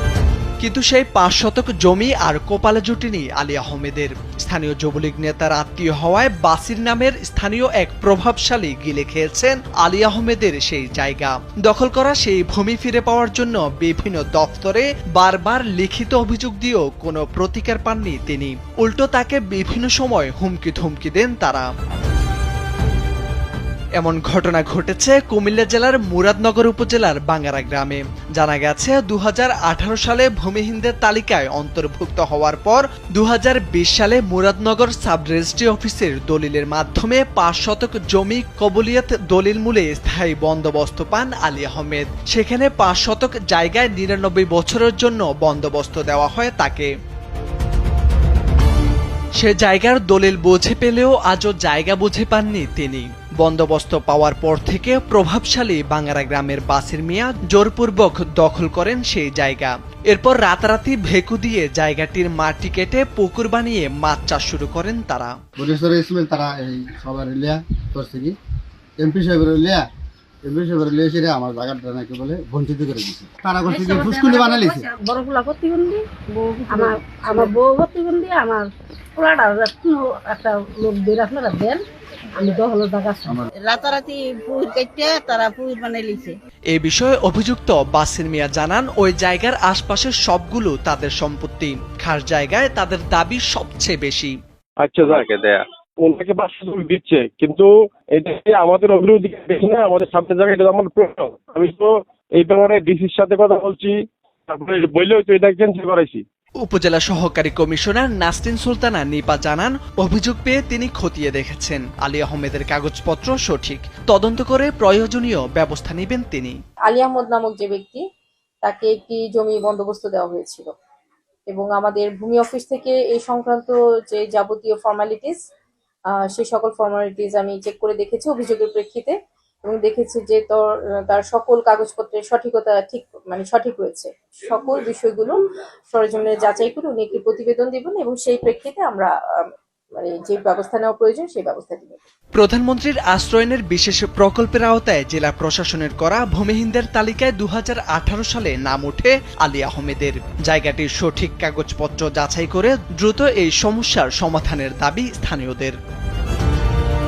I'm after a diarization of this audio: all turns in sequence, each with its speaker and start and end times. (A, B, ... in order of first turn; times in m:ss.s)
0:00.6-0:21.7 A
0:24.0-0:46.9 A
0:49.4-1:05.3 A
1:05.6-1:08.4 B
1:09.0-1:09.9 B
1:10.4-1:14.9 B
1:13.7-1:21.8 C
1:22.3-1:23.4 C
1:23.6-1:26.3 D
1:26.7-1:34.4 A
1:34.8-1:44.0 E
1:44.5-1:46.2 E
1:46.6-1:56.6 A
1:56.9-1:58.0 F
1:58.6-2:00.7 F
2:01.5-2:05.4 F
2:06.2-2:19.4 F
2:20.0-2:22.0 F
2:22.4-2:35.8 A